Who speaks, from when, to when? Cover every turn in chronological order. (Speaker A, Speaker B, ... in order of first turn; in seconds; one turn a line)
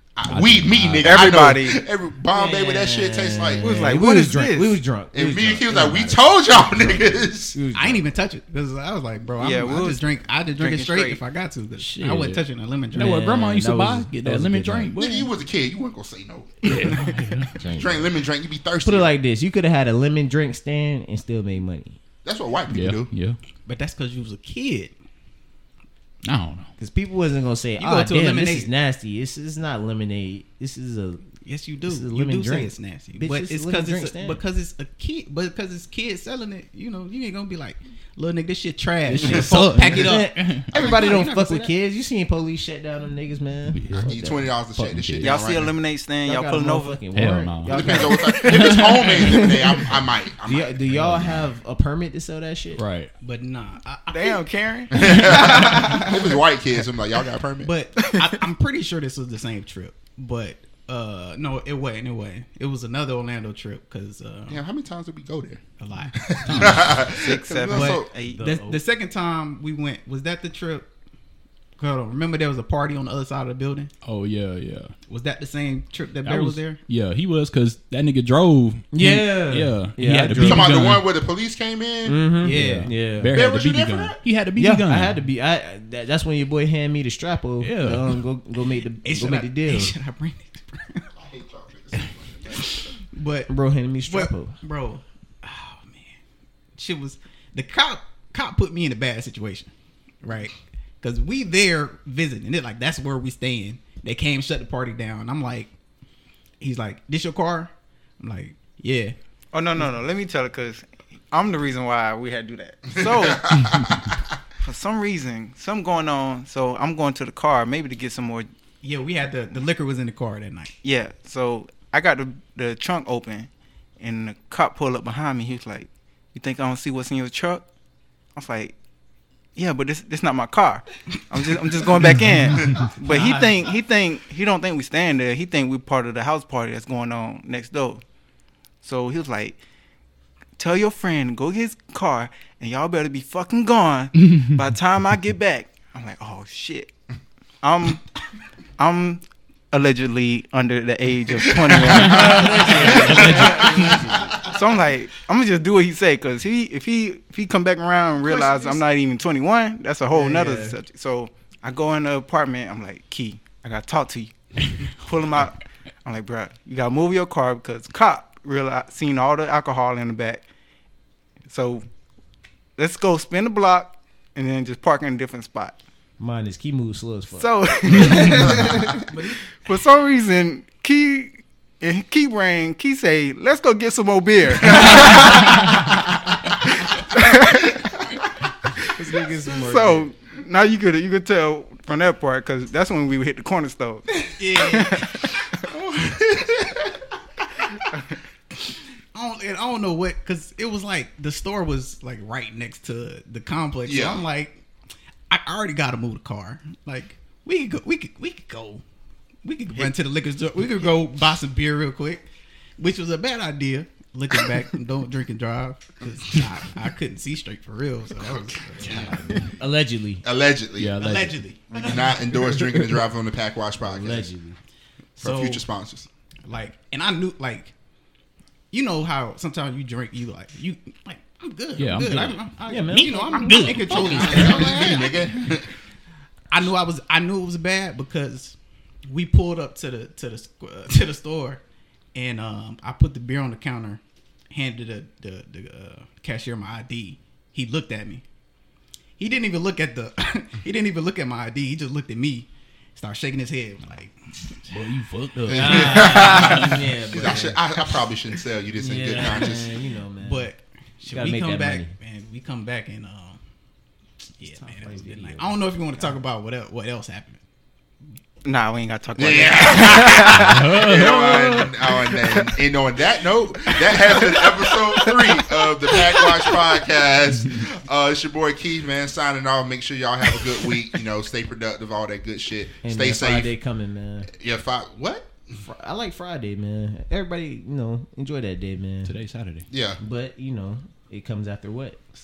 Speaker A: 0.1-3.7
Speaker B: 0.2-1.3
Speaker C: 1.0-1.8
Speaker D: 2.3-8.0
Speaker C: 3.6-4.8
Speaker A: 5.1-7.6
Speaker E: 7.7-13.2
Speaker C: 9.4-11.2
Speaker B: 11.8-15.3
Speaker D: 12.9-14.9
Speaker A: 14.9-17.0
Speaker B: 16.6-17.5
Speaker D: 17.5-18.1
Speaker A: 17.7-19.1
Speaker D: 18.8-22.0
Speaker A: 22.2-23.1
Speaker B: 22.7-23.4
Speaker E: 23.6-24.9
Speaker B: 26.2-26.7
Speaker D: 26.8-34.4
Speaker E: 27.8-28.7
Speaker E: 31.4-41.7
Speaker A: 39.1-39.5
Speaker B: 39.2-40.7
Speaker D: 39.6-44.4
Speaker B: 43.7-45.5
Speaker A: 44.0-45.7
Speaker C: 45.2-47.0
Speaker D: 46.2-49.9
Speaker B: 47.1-49.4
Speaker A: 47.7-50.8
Speaker D: 50.4-52.8
Speaker B: 50.9-51.5
Speaker B: 52.7-53.1
Speaker E: 53.2-56.4
Speaker C: 54.1-54.9
Speaker A: 54.9-57.7
Speaker B: 55.0-55.6
Speaker E: 57.6-64.6
Speaker C: 58.0-58.4
Speaker A: 64.5-65.6
Speaker E: 65.8-66.9
Speaker A: 66.1-68.1
Speaker B: 66.4-67.1
Speaker C: 67.1-68.4
Speaker E: 67.7-70.9
Speaker D: 68.2-68.8
Speaker E: 71.8-73.9
Speaker B: 74.0-74.9
Speaker E: 75.1-76.8
Speaker B: 76.2-81.0
Speaker D: 78.9-80.7
Speaker A: 80.4-82.2
Speaker D: 82.0-83.3
Speaker E: 82.4-83.0
Speaker B: 82.4-85.2
Speaker A: 83.3-84.2
Speaker D: 84.6-90.0
Speaker B: 87.6-88.1
Speaker E: 89.0-91.0
Speaker A: 91.1-92.6
Speaker E: 92.7-93.5
Speaker D: 93.5-94.6
Speaker E: 94.1-96.2
Speaker E: 96.8-105.7
Speaker E: 106.6-109.2
Speaker C: 109.5-113.7
Speaker A: 113.0-114.2
Speaker C: 114.6-118.5
Speaker E: 118.8-120.7
Speaker C: 120.8-127.7
Speaker C: 128.3-128.7
Speaker C: 129.6-138.0
Speaker E: 132.5-133.7
Speaker C: 138.8-139.6
Speaker C: 140.6-146.9
Speaker B: 144.3-144.5
Speaker C: 147.6-148.1
Speaker C: 148.8-153.5
Speaker A: 151.3-153.9
Speaker B: 151.9-154.0
Speaker D: 152.0-154.4
Speaker C: 154.5-170.4
Speaker A: 158.2-158.8
Speaker D: 160.1-160.8
Speaker C: 171.4-171.8
Speaker C: 172.8-175.8
Speaker D: 176.2-179.0
Speaker C: 177.3-178.6
Speaker E: 179.1-179.4
Speaker C: 179.4-185.8
Speaker A: 184.7-185.5
Speaker C: 186.8-187.7
Speaker D: 188.9-190.1
Speaker C: 189.5-195.6
Speaker E: 194.4-195.2
Speaker A: 195.7-197.0
Speaker E: 199.1-204.6
Speaker A: 203.8-204.2
Speaker E: 205.3-208.8
Speaker E: 209.4-212.3
Speaker E: 212.8-219.5
Speaker A: 218.2-219.5
Speaker D: 218.9-220.2
Speaker A: 220.2-221.0
Speaker B: 220.8-221.4
Speaker E: 221.0-222.8
Speaker A: 221.7-224.3
Speaker D: 223.8-224.6
Speaker E: 225.2-225.6
Speaker A: 225.2-226.1
Speaker E: 226.4-227.7
Speaker E: 228.7-235.7
Speaker B: 231.8-234.8
Speaker D: 232.7-235.0
Speaker A: 233.8-235.7
Speaker E: 236.5-238.6
Speaker E: 239.1-241.6
Speaker E: 242.1-248.2
Speaker E: 249.2-254.8
Speaker B: 254.7-256.8
Speaker D: 255.5-257.6
Speaker A: 255.5-259.7
Speaker D: 258.7-260.5
Speaker E: 260.2-263.4
Speaker D: 261.1-261.9
Speaker E: 264.4-267.4
Speaker D: 264.4-266.1
Speaker C: 268.4-270.5
Speaker A: 269.1-283.5
Speaker B: 270.3-271.3
Speaker E: 273.9-274.2
Speaker D: 282.8-284.3
Speaker A: 284.3-285.6
Speaker D: 285.6-289.1
Speaker B: 289.0-289.6
Speaker A: 289.7-290.0
Speaker D: 290.0-292.0